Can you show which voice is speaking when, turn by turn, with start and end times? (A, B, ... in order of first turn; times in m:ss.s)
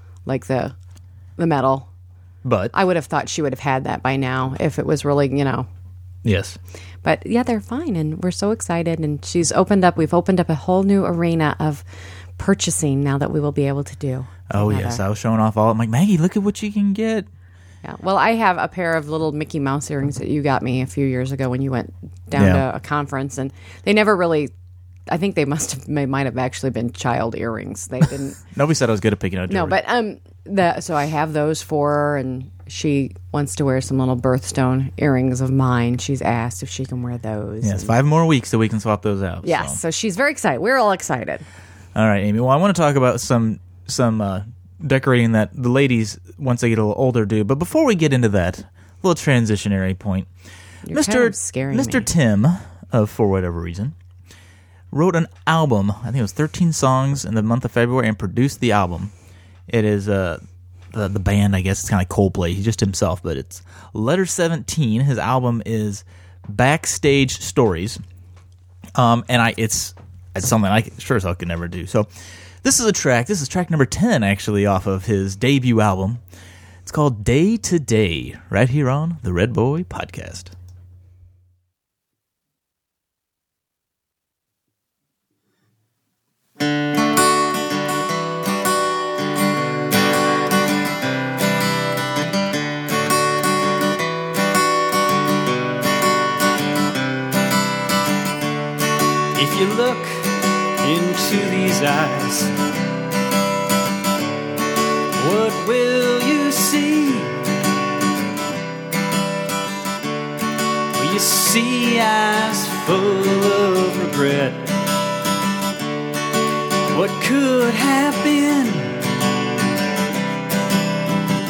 0:00.3-0:00.8 A
0:01.4-0:01.9 A
0:02.4-0:02.8 B
0:02.7-0:05.7 A
0:06.2-0:06.6 B
0:07.0-0:11.8 A
0:12.4-0:15.0 A
0:14.5-0:17.3 B
0:17.8-0:24.5 A
0:22.4-0:22.6 B
0:25.1-0:28.4 A
0:28.5-0:29.8 B
0:29.5-0:38.0 A
0:37.6-0:39.8 B
0:39.4-0:41.4 A
0:42.0-0:50.3 B
0:50.9-0:52.1 A
0:50.9-0:54.0 B
0:54.9-0:59.1 B
0:59.7-1:08.0 B
1:09.0-1:12.1 B
1:12.6-1:16.2 B
1:16.8-1:20.5 B
1:39.3-1:42.5 C
1:45.2-1:47.4 C
1:51.0-1:54.7 C
1:56.9-1:59.0 C